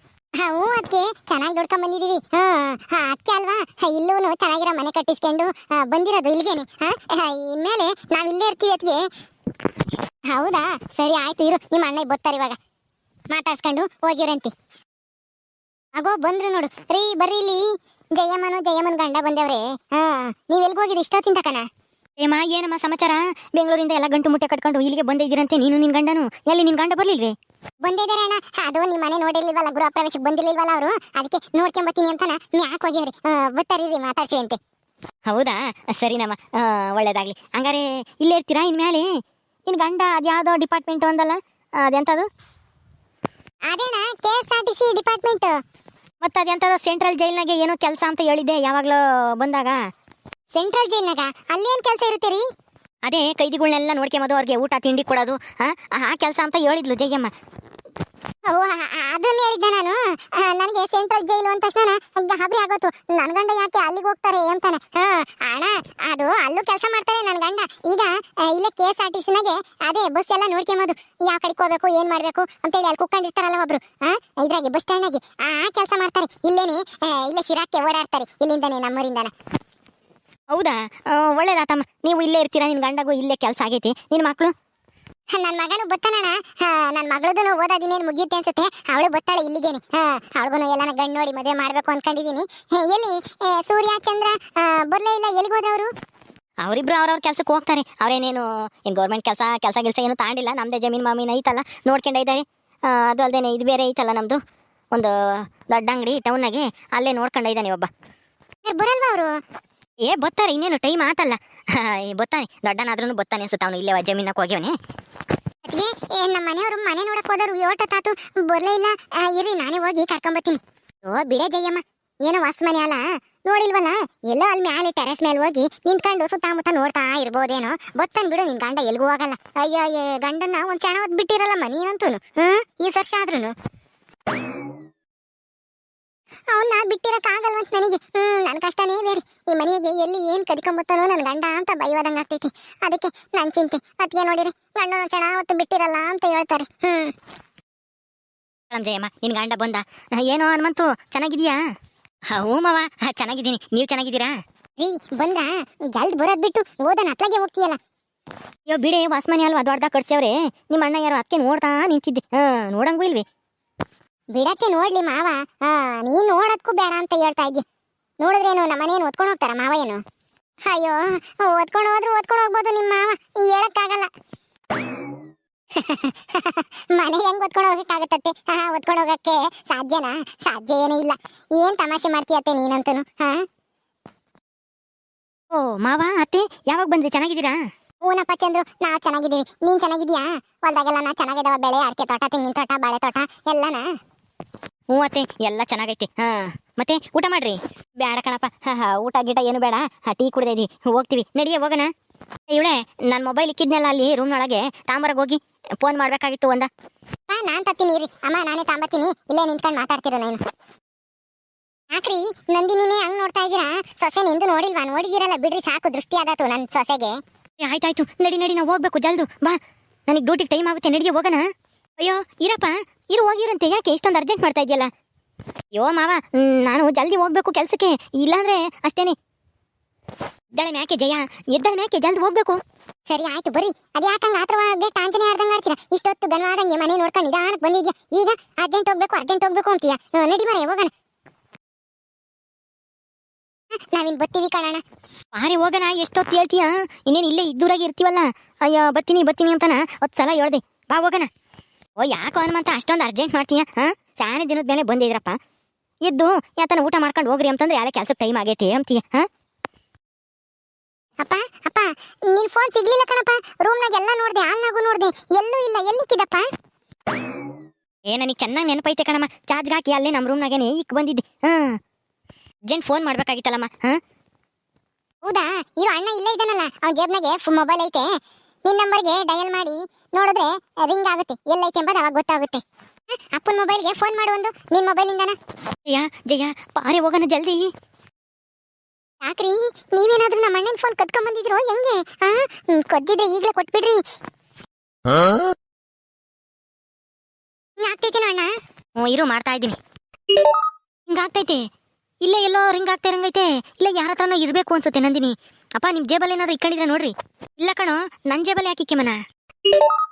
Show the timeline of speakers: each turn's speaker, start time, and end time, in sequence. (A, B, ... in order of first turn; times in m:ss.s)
0:00.4-0:09.0 A
0:10.3-0:12.6 A
0:13.3-0:14.5 A
0:16.0-0:21.7 A
0:22.2-0:27.4 B
0:27.8-0:34.6 A
0:35.3-0:39.1 B
0:39.7-0:42.3 B
0:43.7-0:45.6 A
0:46.2-0:49.8 B
0:50.5-0:52.4 A
0:53.0-0:57.3 B
0:58.5-1:19.3 A
1:20.5-1:24.5 B
1:25.3-1:35.9 A
1:36.6-1:44.4 B
1:44.9-1:47.9 B
1:48.6-1:49.3 A
1:50.0-1:54.7 B
1:55.6-2:13.5 A
2:16.5-2:27.1 A
2:28.7-2:31.6 B
2:32.3-2:34.4 B
2:34.8-2:37.8 A
2:38.7-2:43.2 B
2:44.3-2:47.6 A
2:48.2-2:50.0 A
2:50.6-2:54.1 A
2:55.8-3:03.4 A
3:05.5-3:07.6 B
3:08.0-3:13.8 A
3:14.9-3:21.9 B
3:22.5-3:26.7 B
3:27.3-3:30.4 A
3:31.9-3:37.2 A
3:37.6-3:41.5 B
3:42.0-3:44.9 B
3:45.7-3:49.2 B
3:50.5-3:52.6 B
3:53.1-4:00.9 A
4:03.9-4:04.8 A
4:05.4-4:11.3 B
4:12.0-4:15.4 B
4:16.0-4:19.3 B
4:21.2-4:26.5 A
4:28.1-4:31.8 B
4:32.7-4:34.0 B
4:35.2-4:38.1 A
4:38.6-4:42.6 A
4:43.3-4:45.4 A
4:45.9-4:47.7 B
4:49.2-4:54.0 A
4:57.8-4:58.5 A
4:59.0-4:59.8 B
5:01.1-5:01.6 B
5:02.2-5:09.2 B